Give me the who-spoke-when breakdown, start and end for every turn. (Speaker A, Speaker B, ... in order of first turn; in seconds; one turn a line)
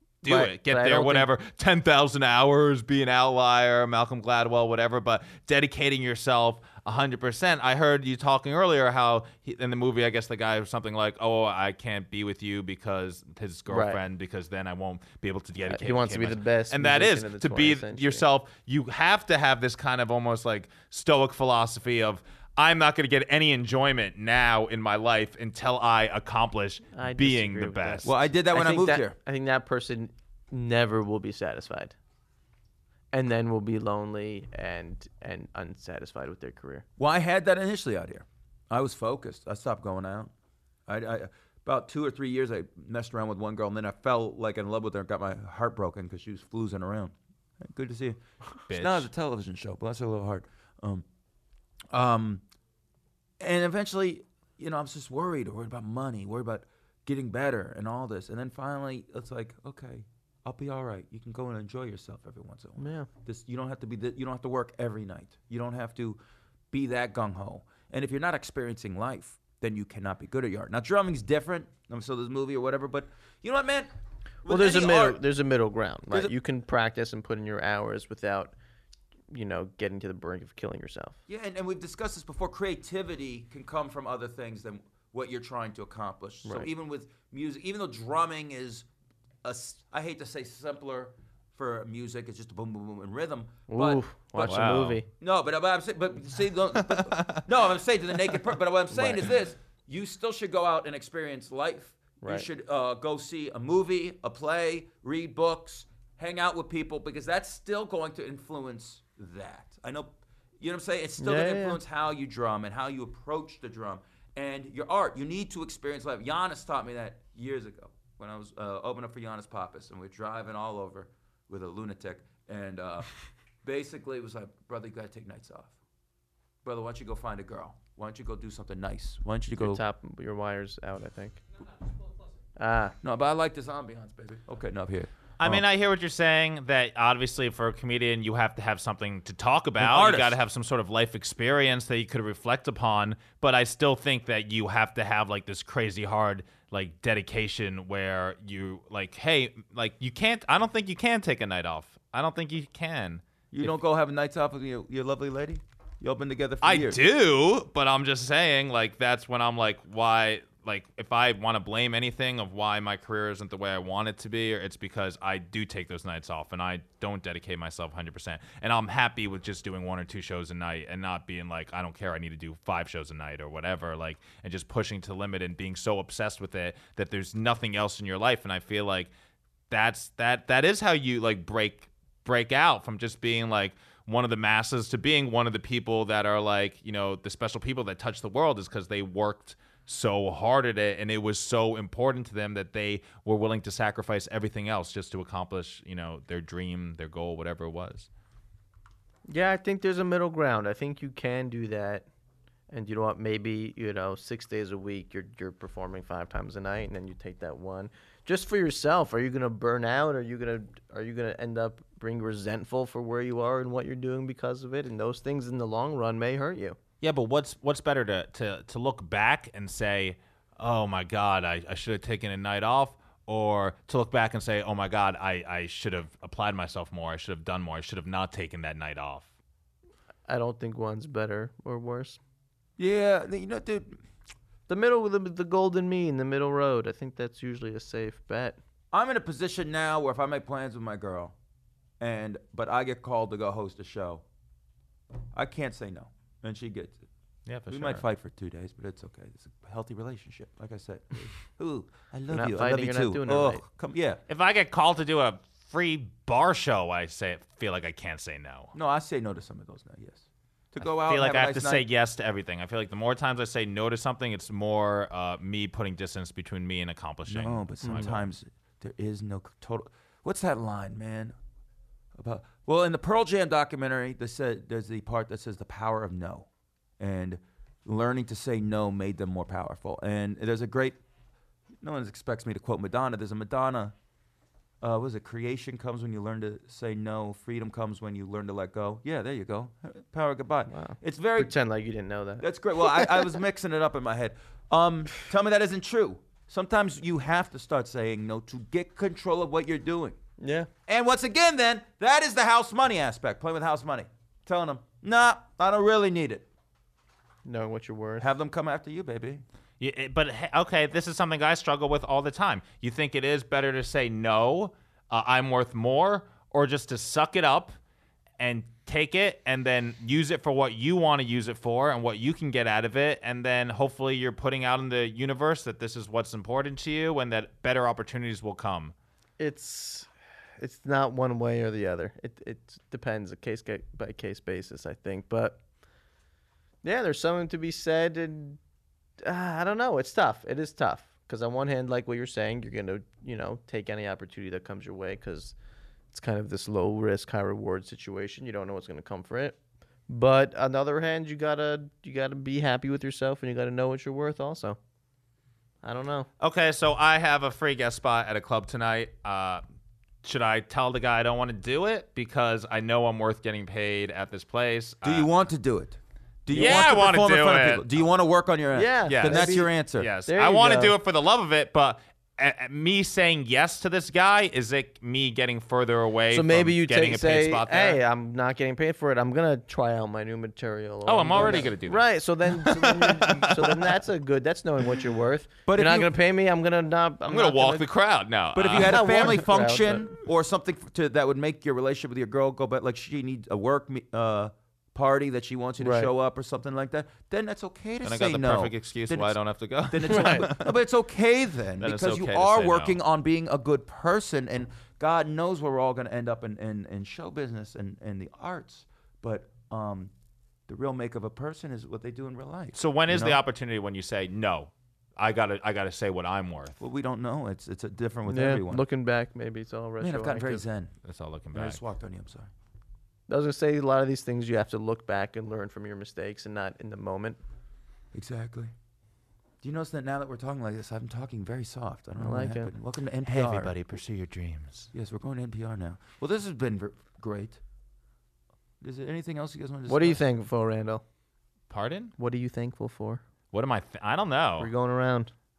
Speaker A: 0.2-28.1
Speaker B: 0.2-1.3
Speaker B: 13.7-14.0
Speaker B: 15.7-18.2
Speaker B: 26.9-31.9
Speaker C: 28.1-29.2
Speaker B: 33.1-36.9
Speaker C: 37.0-40.3
Speaker C: 40.9-51.0
Speaker A: 48.7-49.1
Speaker C: 51.9-52.4
Speaker C: 53.4-66.2
Speaker B: 62.8-63.1
Speaker C: 66.7-73.9
Speaker C: 74.4-75.2
Speaker B: 74.5-78.5
Speaker B: 79.3-81.2
Speaker C: 81.3-88.9
Speaker B: 86.5-86.7
Speaker C: 89.4-123.1
Speaker B: 93.7-95.1
Speaker A: 94.4-95.0
Speaker A: 96.9-97.4
Speaker B: 98.9-99.3
Speaker B: 102.2-102.5
Speaker B: 111.2-111.8
Speaker C: 123.6-125.7
Speaker C: 126.6-129.8
Speaker B: 129.6-131.4
Speaker B: 132.6-132.9
Speaker C: 133.0-135.6
Speaker A: 135.4-153.7
Speaker C: 139.8-140.4
Speaker C: 153.5-157.0
Speaker A: 156.6-179.1
Speaker A: 179.7-198.1
Speaker B: 199.3-202.1
Speaker B: 202.7-216.8
Speaker A: 217.0-229.3
Speaker B: 230.3-232.2
Speaker C: 232.8-234.0
Speaker B: 234.7-238.6
Speaker C: 238.9-241.3
Speaker C: 242.0-244.2
Speaker C: 245.3-247.0
Speaker A: 247.5-248.0
Speaker C: 247.7-254.2
Speaker B: 252.3-253.6
Speaker A: 254.3-258.7
Speaker C: 258.7-261.9
Speaker A: 260.8-268.3
Speaker C: 267.3-271.4
Speaker B: 267.8-268.1
Speaker C: 272.1-276.5
Speaker C: 277.0-281.0
Speaker C: 281.8-283.9
Speaker C: 284.8-291.5
Speaker B: 290.7-293.3
Speaker C: 292.4-300.2
Speaker B: 300.4-300.7
Speaker C: 300.9-306.5
Speaker B: 307.4-308.3
Speaker C: 308.2-309.4
Speaker A: 309.8-317.7
Speaker A: 318.4-328.9
Speaker B: 329.4-335.6
Speaker B: 336.8-338.6
Speaker B: 339.2-345.6
Speaker B: 346.1-349.6
Speaker B: 350.1-354.8
Speaker B: 355.8-356.3
Speaker A: 356.4-359.6
Speaker A: 360.2-365.3
Speaker C: 365.0-370.1
Speaker B: 366.5-366.8
Speaker A: 366.5-367.9
Speaker B: 368.7-369.7
Speaker A: 369.1-378.0
Speaker B: 370.3-371.0
Speaker B: 376.3-387.9
Speaker A: 381.1-383.9
Speaker C: 381.3-381.7
Speaker C: 385.7-386.1
Speaker A: 387.3-389.1
Speaker C: 388.5-399.4
Speaker B: 388.8-390.2
Speaker B: 395.8-396.1
Speaker A: 398.0-400.8
Speaker C: 399.9-410.1
Speaker B: 400.2-400.5
Speaker A: 401.8-403.0
Speaker C: 410.7-413.4
Speaker A: 412.8-416.8
Speaker C: 416.8-418.9
Speaker B: 418.3-420.6
Speaker C: 420.0-420.9
Speaker A: 421.0-421.8
Speaker C: 421.5-422.5
Speaker B: 423.3-427.4
Speaker C: 428.1-428.7
Speaker C: 429.6-433.8
Speaker B: 432.2-432.7
Speaker A: 433.3-434.9
Speaker C: 434.9-437.6
Speaker C: 438.8-440.2
Speaker B: 439.9-441.0
Speaker A: 441.7-442.1
Speaker B: 442.2-443.2
Speaker A: 443.5-444.7
Speaker B: 444.6-445.3